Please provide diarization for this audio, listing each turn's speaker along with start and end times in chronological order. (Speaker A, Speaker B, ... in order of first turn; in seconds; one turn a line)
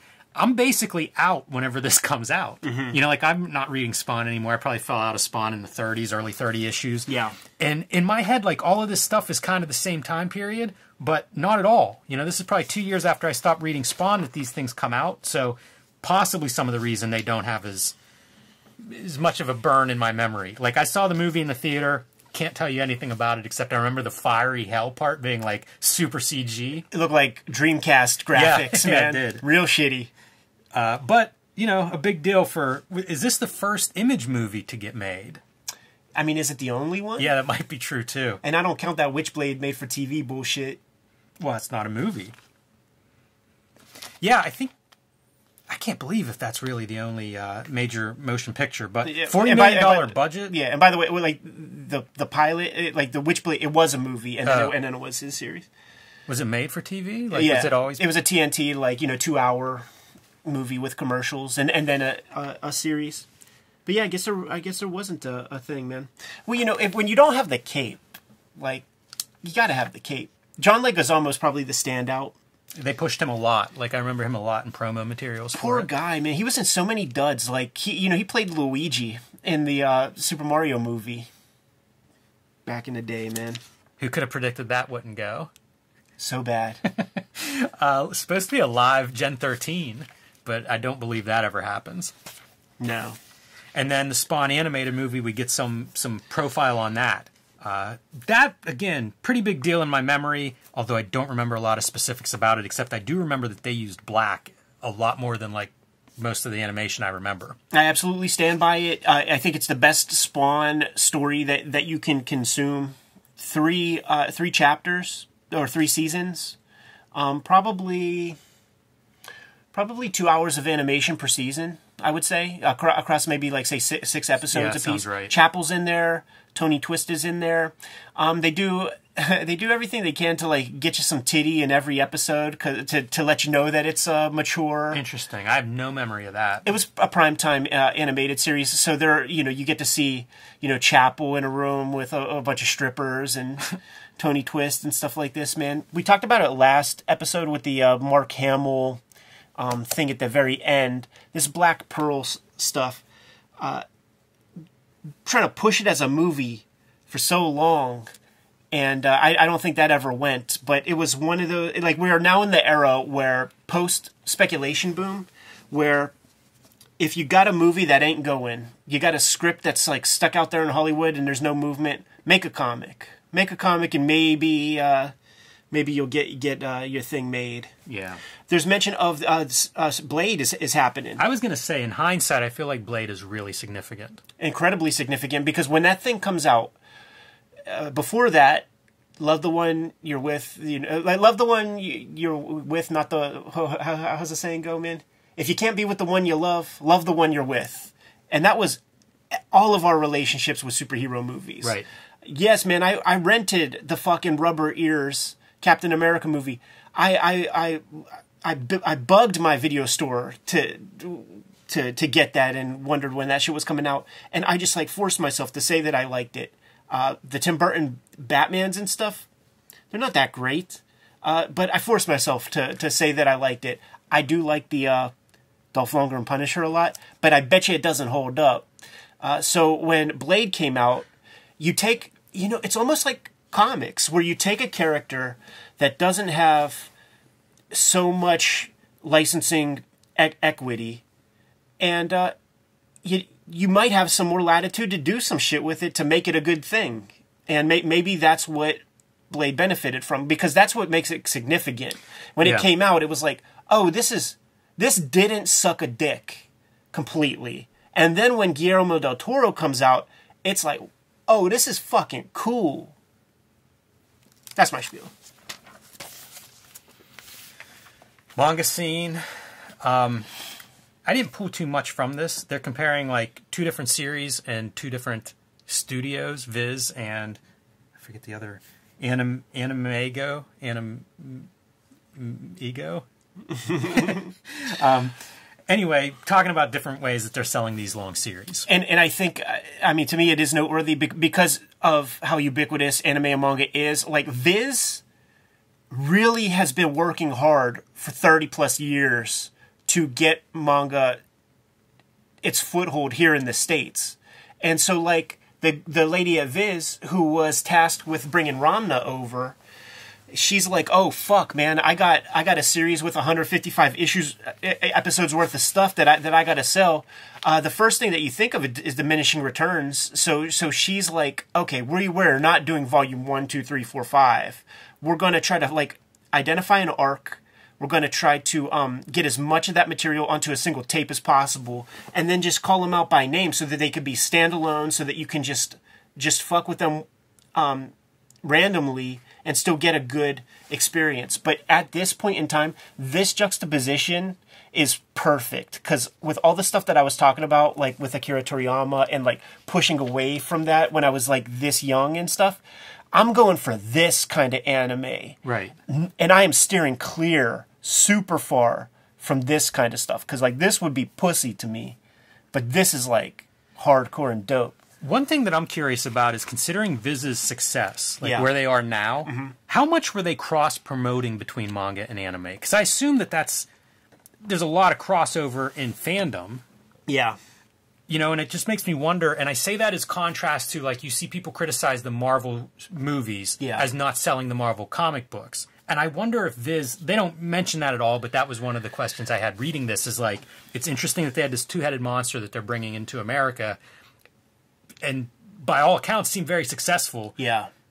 Speaker A: 0.3-17.9
Speaker B: 2.6-3.0
Speaker B: 7.1-7.4
Speaker A: 18.8-26.9
Speaker B: 26.9-30.1
Speaker A: 28.4-29.4
Speaker A: 30.7-35.4
Speaker B: 36.1-37.3
Speaker A: 37.2-38.4
Speaker B: 38.4-40.8
Speaker A: 41.4-42.3
Speaker A: 44.2-44.7
Speaker A: 45.7-50.5
Speaker B: 49.0-55.7
Speaker A: 54.4-54.7
Speaker A: 56.3-58.0
Speaker B: 57.3-59.9
Speaker B: 60.4-63.3
Speaker B: 63.9-68.8
Speaker B: 69.4-72.3
Speaker A: 72.8-75.9
Speaker B: 75.5-81.3
Speaker B: 82.7-83.6
Speaker A: 84.0-85.5
Speaker B: 86.2-86.8
Speaker A: 86.8-92.1
Speaker B: 92.8-93.2
Speaker A: 93.7-107.6
Speaker B: 107.7-116.6
Speaker B: 117.1-118.4
Speaker B: 119.7-135.0
Speaker A: 124.5-125.3
Speaker A: 134.9-136.7
Speaker B: 136.6-149.0
Speaker B: 149.6-153.0
Speaker B: 153.6-153.8
Speaker B: 155.2-158.1
Speaker B: 158.7-166.1
Speaker B: 167.0-175.1
Speaker B: 175.7-177.7
Speaker A: 177.9-178.2
Speaker B: 178.5-181.2
Speaker A: 181.2-184.2
Speaker B: 184.4-186.7
Speaker B: 187.7-188.7
Speaker B: 189.2-219.3
Speaker A: 201.6-201.9
Speaker B: 219.9-225.1
Speaker B: 225.7-228.7
Speaker B: 229.2-231.1
Speaker B: 231.6-236.9
Speaker B: 237.7-241.0
Speaker B: 241.8-242.3
Speaker B: 243.0-262.9
Speaker B: 264.6-265.1
Speaker A: 268.4-269.2
Speaker A: 269.8-270.3
Speaker A: 271.1-277.4
Speaker A: 278.0-281.5
Speaker A: 282.1-283.0
Speaker A: 283.6-285.1
Speaker A: 285.7-288.7
Speaker B: 288.7-295.0
Speaker B: 295.9-301.2
Speaker B: 302.4-309.6
Speaker B: 310.3-352.6
Speaker B: 353.1-362.0
Speaker A: 355.4-355.8
Speaker B: 362.5-364.8
Speaker A: 365.0-373.7
Speaker B: 368.2-368.5
Speaker B: 369.2-369.5
Speaker A: 374.4-376.6
Speaker B: 377.1-377.4
Speaker A: 378.1-393.8
Speaker B: 383.6-383.8
Speaker A: 395.0-397.4
Speaker B: 397.4-397.7